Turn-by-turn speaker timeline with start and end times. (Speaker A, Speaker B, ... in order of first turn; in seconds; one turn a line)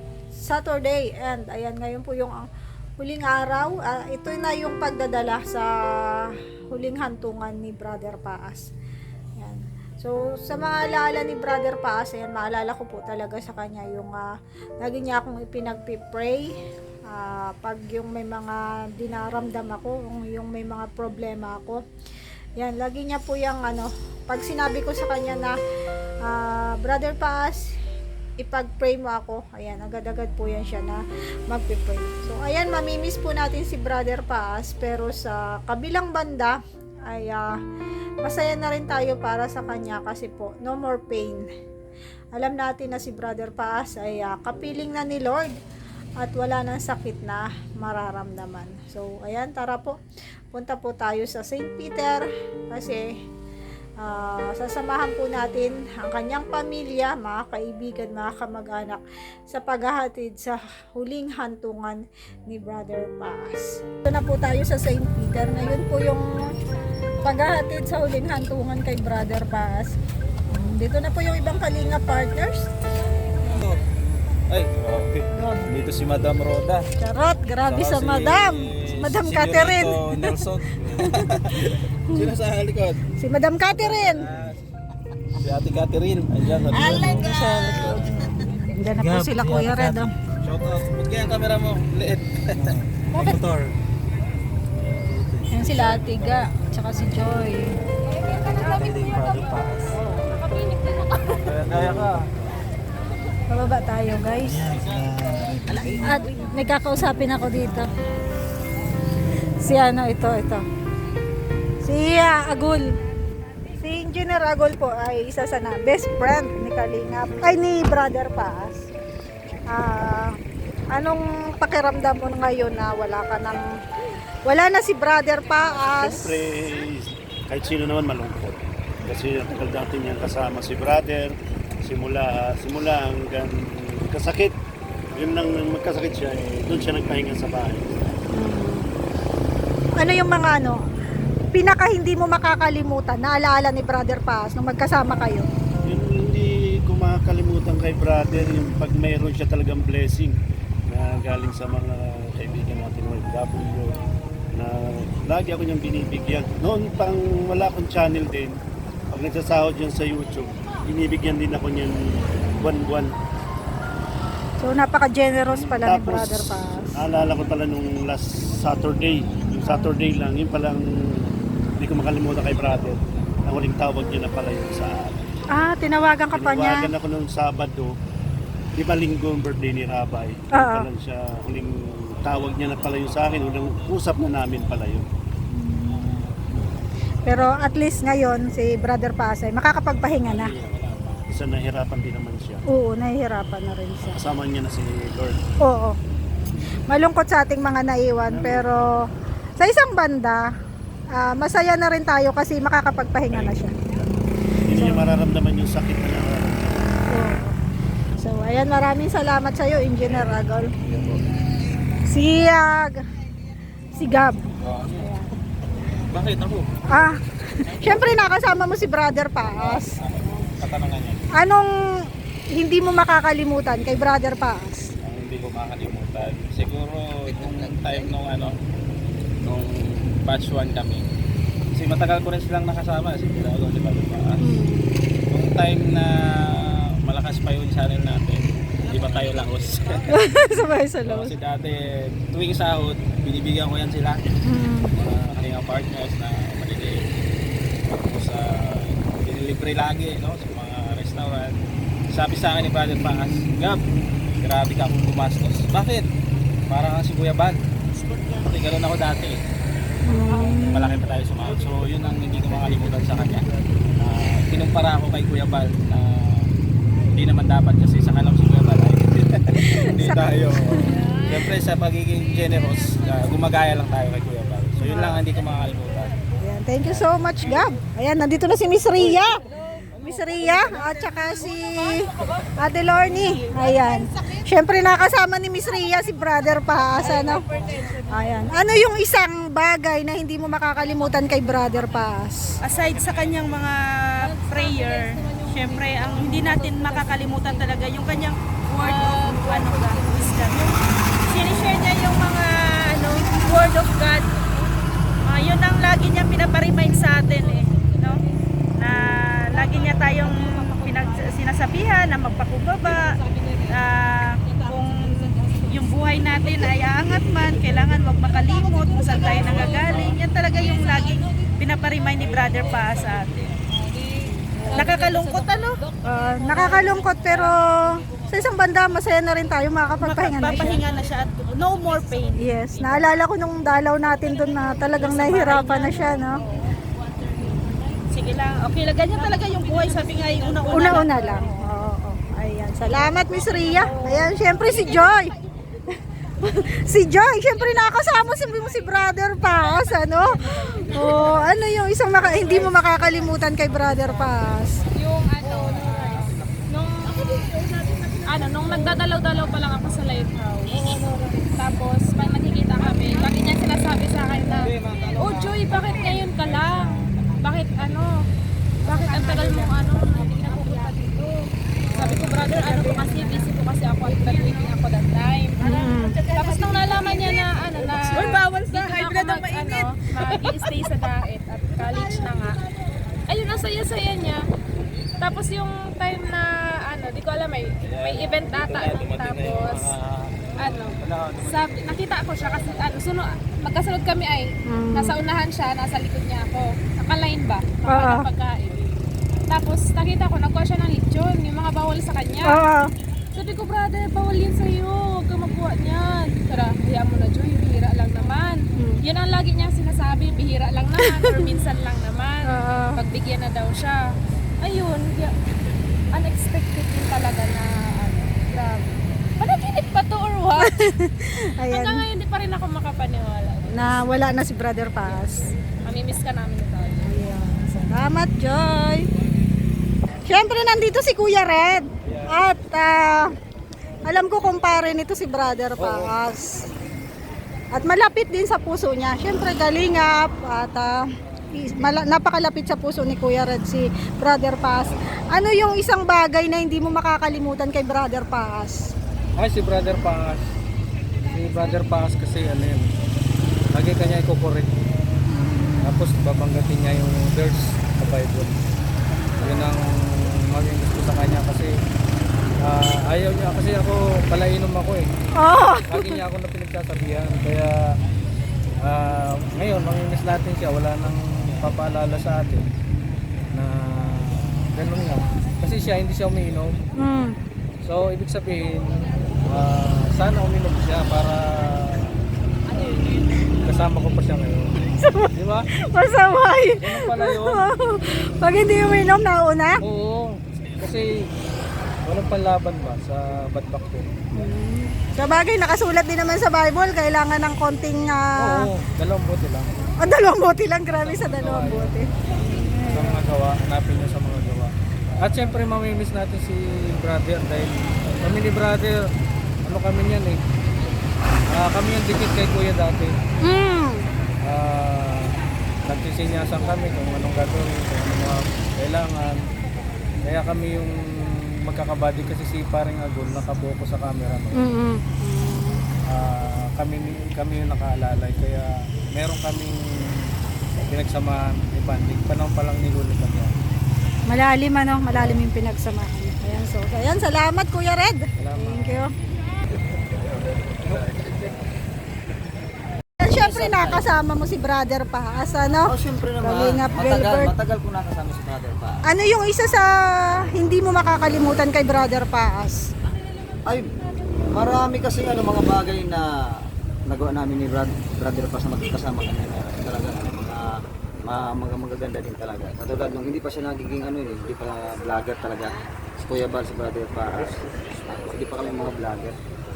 Speaker A: 0.3-2.5
Speaker A: 3.0-5.7
Speaker A: 6.7-8.7
Speaker A: 9.4-14.3
Speaker A: 14.8-16.5
Speaker A: 17.1-21.8
Speaker A: 22.6-25.6
Speaker A: 26.2-27.6
Speaker A: 28.4-36.6
Speaker A: 37.1-37.5
Speaker A: 38.2-41.5
Speaker A: 42.4-45.5
Speaker A: 46.2-50.0
Speaker A: 50.5-53.1
Speaker A: 54.0-66.2
Speaker A: 67.2-69.9
Speaker A: 70.5-72.7
Speaker B: 73.5-73.8
Speaker B: 74.5-76.9
Speaker A: 75.3-75.7
Speaker A: 77.0-80.3
Speaker B: 77.6-83.0
Speaker A: 83.2-84.3
Speaker B: 83.7-84.6
Speaker B: 85.4-87.4
Speaker A: 86.7-90.1
Speaker B: 90.4-93.3
Speaker A: 95.5-97.7
Speaker C: 98.5-99.5
Speaker C: 100.1-101.3
Speaker B: 101.4-102.3
Speaker A: 103.5-104.7
Speaker B: 104.7-105.3
Speaker A: 106.0-107.9
Speaker A: 109.6-110.7
Speaker A: 111.8-112.9
Speaker A: 113.8-118.9
Speaker A: 119.7-120.3
Speaker A: 120.9-123.7
Speaker A: 124.5-126.3
Speaker D: 125.9-134.5
Speaker D: 135.2-138.2
Speaker A: 138.3-138.8
Speaker A: 140.0-140.8
Speaker A: 141.5-145.5
Speaker D: 145.9-150.4
Speaker D: 150.9-154.0
Speaker D: 154.6-158.6
Speaker D: 159.1-163.1
Speaker A: 164.6-166.9
Speaker D: 165.5-175.3
Speaker A: 175.6-176.9
Speaker D: 176.3-177.9
Speaker D: 178.8-181.7
Speaker A: 180.6-180.9
Speaker D: 182.2-185.1
Speaker A: 185.5-186.7
Speaker A: 187.3-190.5
Speaker B: 190.0-191.2
Speaker D: 191.3-192.6
Speaker A: 192.7-194.2
Speaker D: 194.1-195.4
Speaker A: 195.7-195.9
Speaker A: 196.9-198.9
Speaker D: 198.3-198.7
Speaker A: 199.6-200.4
Speaker A: 201.2-203.7
Speaker D: 204.7-207.0
Speaker A: 204.8-205.1
Speaker A: 207.1-207.6
Speaker A: 208.2-210.7
Speaker A: 212.1-213.0
Speaker A: 214.0-215.3
Speaker B: 214.6-215.1
Speaker B: 216.1-216.7
Speaker A: 216.9-219.9
Speaker B: 219.4-221.2
Speaker A: 221.4-221.7
Speaker A: 222.6-224.8
Speaker B: 225.0-228.6
Speaker B: 229.4-231.1
Speaker B: 231.7-234.4
Speaker A: 234.4-234.9
Speaker B: 235.3-240.1
Speaker A: 240.1-241.3
Speaker B: 241.0-244.2
Speaker A: 244.4-244.9
Speaker B: 245.0-247.0
Speaker B: 247.9-251.5
Speaker B: 252.1-253.8
Speaker B: 254.4-256.1
Speaker B: 256.7-257.6
Speaker B: 258.3-259.4
Speaker A: 260.1-261.0
Speaker B: 260.3-263.5
Speaker B: 264.0-266.5
Speaker B: 267.1-276.1
Speaker A: 269.6-271.0
Speaker A: 274.8-275.2
Speaker A: 276.4-279.4
Speaker A: 280.0-287.5
Speaker A: 288.0-292.5
Speaker E: 292.6-304.3
Speaker E: 305.2-308.2
Speaker E: 308.8-323.5
Speaker B: 319.8-320.1
Speaker A: 324.3-324.9
Speaker E: 324.7-325.8
Speaker A: 326.1-330.8
Speaker E: 330.0-332.4
Speaker A: 332.4-336.4
Speaker E: 335.0-335.7
Speaker E: 338.1-341.3
Speaker A: 340.7-345.3
Speaker A: 346.4-354.8
Speaker C: 354.9-357.5
Speaker C: 358.2-360.8
Speaker C: 361.3-368.2
Speaker B: 364.5-367.0
Speaker C: 368.9-371.3
Speaker E: 369.2-369.8
Speaker C: 371.9-375.6
Speaker A: 375.6-376.2
Speaker C: 376.3-382.6
Speaker F: 376.4-377.1
Speaker C: 383.3-384.4
Speaker C: 385.2-389.9
Speaker B: 387.9-392.0
Speaker C: 390.6-398.8
Speaker A: 394.7-395.2
Speaker A: 397.9-398.3
Speaker C: 399.5-402.6
Speaker A: 402.4-402.9
Speaker C: 403.3-414.0
Speaker A: 411.0-411.5
Speaker A: 412.5-413.0
Speaker C: 414.6-415.3
Speaker C: 416.1-420.8
Speaker A: 420.6-422.1
Speaker C: 421.7-424.0
Speaker A: 423.7-425.5
Speaker C: 425.8-427.1
Speaker A: 427.0-429.1
Speaker A: 430.2-433.2
Speaker A: 434.0-436.7
Speaker F: 435.8-436.1
Speaker A: 437.7-441.0
Speaker A: 441.6-448.8
Speaker F: 449.4-450.4
Speaker F: 451.2-452.9
Speaker F: 453.7-454.7
Speaker A: 455.3-456.0
Speaker F: 455.8-458.6
Speaker F: 459.4-461.7
Speaker F: 462.6-465.1
Speaker A: 465.4-466.2
Speaker F: 465.9-467.9
Speaker F: 468.9-472.7
Speaker F: 473.6-476.8
Speaker A: 477.0-477.4
Speaker F: 477.8-482.2
Speaker F: 483.6-484.8
Speaker A: 485.0-485.3
Speaker F: 485.4-485.7
Speaker A: 485.9-489.8
Speaker F: 486.8-487.7
Speaker F: 489.8-491.3
Speaker F: 492.1-494.1
Speaker A: 494.4-498.7
Speaker F: 498.4-499.8
Speaker A: 500.0-503.2
Speaker F: 501.0-504.7
Speaker F: 505.2-509.0
Speaker F: 509.6-510.4
Speaker F: 511.5-513.1
Speaker A: 513.4-514.1
Speaker F: 514.5-519.4
Speaker F: 520.3-521.0
Speaker F: 521.6-524.6
Speaker A: 524.5-525.8
Speaker F: 526.1-533.6
Speaker A: 534.3-539.1
Speaker F: 538.4-539.0
Speaker A: 543.2-547.5
Speaker G: 543.3-544.1
Speaker G: 545.8-549.0
Speaker A: 549.1-549.9
Speaker A: 550.5-552.8
Speaker G: 554.5-560.6
Speaker G: 561.3-569.4